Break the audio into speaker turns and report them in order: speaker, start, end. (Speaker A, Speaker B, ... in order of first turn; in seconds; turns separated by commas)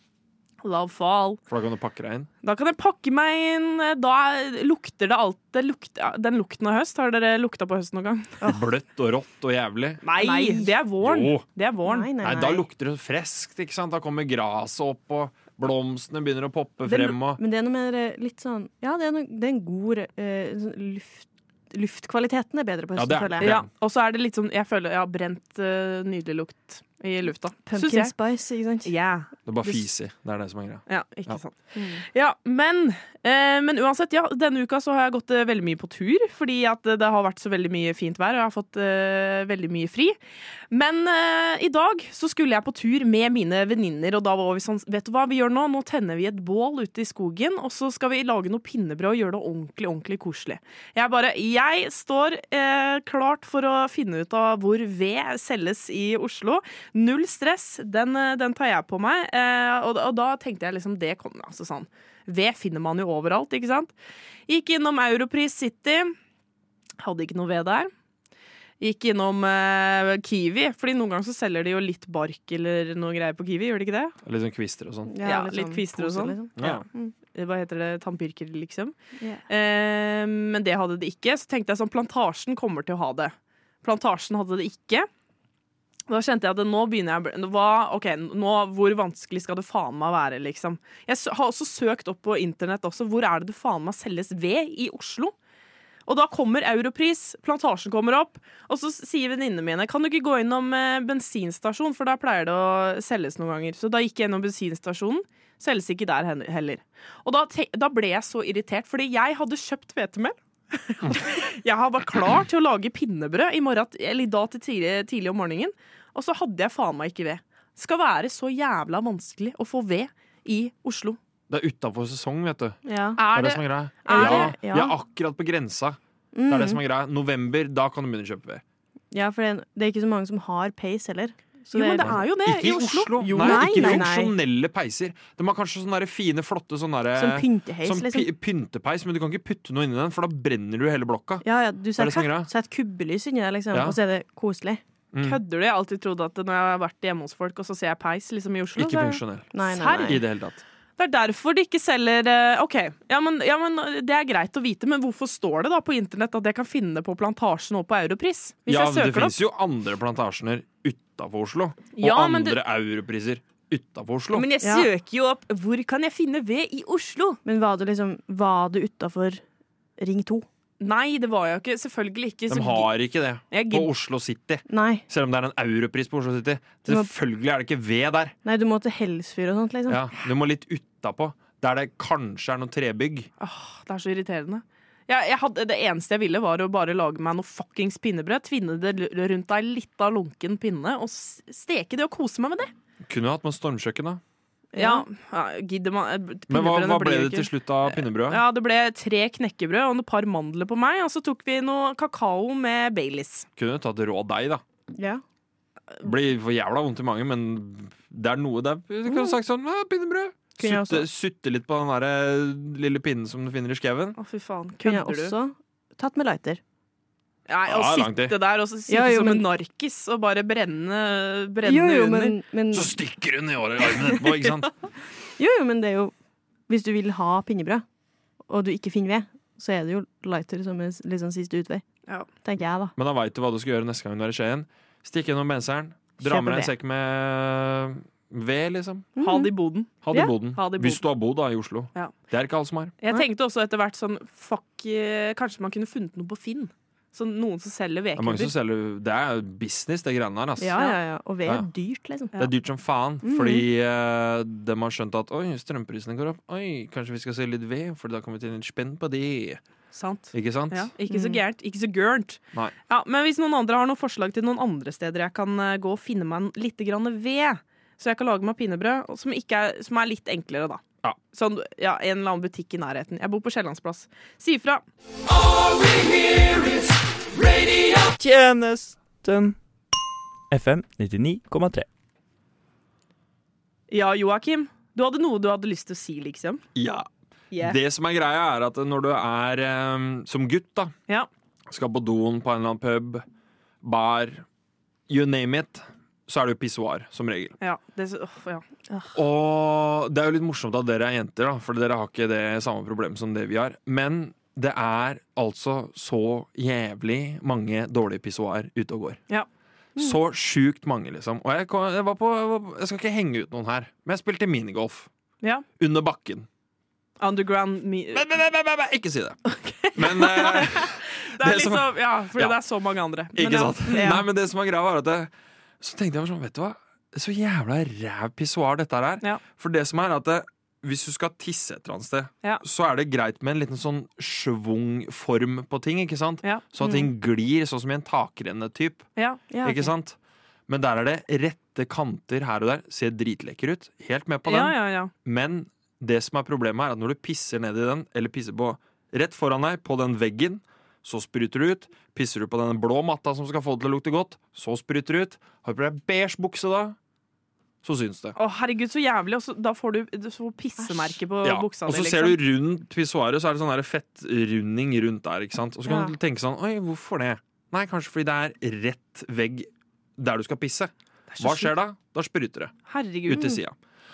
Speaker A: 0.6-1.4, Speaker B: 1.5-2.3, Speaker A: 2.4-8.4, Speaker B: 8.4-10.0, Speaker A: 10.0-12.1, Speaker C: 10.2-10.7, Speaker B: 11.0-11.4, Speaker C: 11.8-12.6, Speaker B: 12.2-17.4, Speaker C: 16.8-23.5, Speaker B: 22.9-23.7, Speaker A: 23.4-28.1, Speaker C: 27.7-28.9, Speaker A: 28.8-29.9, Speaker B: 29.5-31.4, Speaker A: 30.9-40.2, Speaker C: 31.7-32.0, Speaker A: 40.7-63.9, Speaker A: 64.5-66.1, Speaker A: 67.0-67.9, Speaker A: 68.8-74.1, Speaker B: 74.2-75.1, Speaker C: 75.1-77.1, Speaker A: 75.2-78.9, Speaker B: 76.6-76.8, Speaker C: 79.2-79.4, Speaker A: 79.5-85.1, Speaker A: 86.1-95.3, Speaker A: 96.1-121.2, Speaker B: 121.5-122.8, Speaker C: 122.8-123.2, Speaker A: 123.2-124.5, Speaker B: 123.3-126.0, Speaker C: 124.1-125.0, Speaker C: 126.3-126.8, Speaker B: 126.5-128.6, Speaker C: 129.1-132.2, Speaker A: 131.7-134.1, Speaker B: 132.0-141.4, Speaker C: 133.3-134.3, Speaker C: 137.1-138.3, Speaker C: 141.4-144.8, Speaker B: 141.9-142.5, Speaker B: 143.7-144.0, Speaker B: 145.1-145.4, Speaker A: 145.2-149.1, Speaker B: 148.8-150.6, Speaker C: 148.8-150.2, Speaker A: 149.6-150.1, Speaker A: 151.0-159.3, Speaker B: 158.7-164.5, Speaker A: 161.9-162.6, Speaker A: 164.3-167.4, Speaker C: 164.6-164.9, Speaker C: 167.4-169.4, Speaker C: 170.0-170.4, Speaker A: 170.8-172.9, Speaker B: 172.5-178.3, Speaker A: 173.5-173.9, Speaker C: 174.7-175.0, Speaker C: 176.8-177.1, Speaker C: 178.4-180.1, Speaker B: 179.9-183.3, Speaker A: 183.4-192.7, Speaker B: 193.1-194.2, Speaker C: 194.7-195.0, Speaker A: 194.8-203.5, Speaker B: 196.5-198.4, Speaker B: 203.6-204.6, Speaker C: 204.9-205.2, Speaker B: 206.0-214.2, Speaker C: 209.1-209.3, Speaker C: 210.6-211.1, Speaker A: 214.2-215.3, Speaker C: 214.8-216.6, Speaker A: 217.5-222.3, Speaker B: 217.7-218.3, Speaker C: 218.9-219.4, Speaker C: 221.6-222.9, Speaker B: 222.7-224.7, Speaker C: 225.4-226.1, Speaker C: 226.7-227.8, Speaker C: 228.5-231.8, Speaker C: 232.4-232.9, Speaker B: 232.9-239.1, Speaker C: 236.2-236.7, Speaker C: 239.2-239.5, Speaker A: 239.2-241.0, Speaker B: 240.0-242.9, Speaker A: 243.0-248.5, Speaker B: 248.2-250.8, Speaker C: 250.6-252.3, Speaker B: 252.4-259.6, Speaker C: 253.2-253.7, Speaker A: 259.9-274.8, Speaker B: 260.3-260.9, Speaker C: 261.1-261.4, Speaker D: 277.4-279.6, Speaker D: 280.5-281.9, Speaker A: 283.9-286.6, Speaker B: 286.7-290.9, Speaker A: 287.5-287.8, Speaker B: 291.7-293.2, Speaker B: 293.8-294.4, Speaker B: 295.1-297.5, Speaker A: 297.6-299.1, Speaker B: 299.1-309.2, Speaker B: 310.0-315.1, Speaker B: 315.8-316.5, Speaker A: 317.2-318.2, Speaker B: 318.1-319.4, Speaker A: 319.5-324.2, Speaker B: 319.9-322.6, Speaker B: 323.3-339.1, Speaker C: 323.9-324.2, Speaker C: 336.8-337.1, Speaker A: 339.1-339.4, Speaker C: 339.5-339.9, Speaker B: 339.6-340.2, Speaker B: 340.7-356.9, Speaker A: 344.4-345.1, Speaker B: 357.8-358.4, Speaker A: 358.4-362.4, Speaker C: 360.8-361.1, Speaker B: 361.4-372.7, Speaker C: 365.9-366.1, Speaker A: 371.3-371.7, Speaker A: 372.9-373.6, Speaker B: 373.3-373.8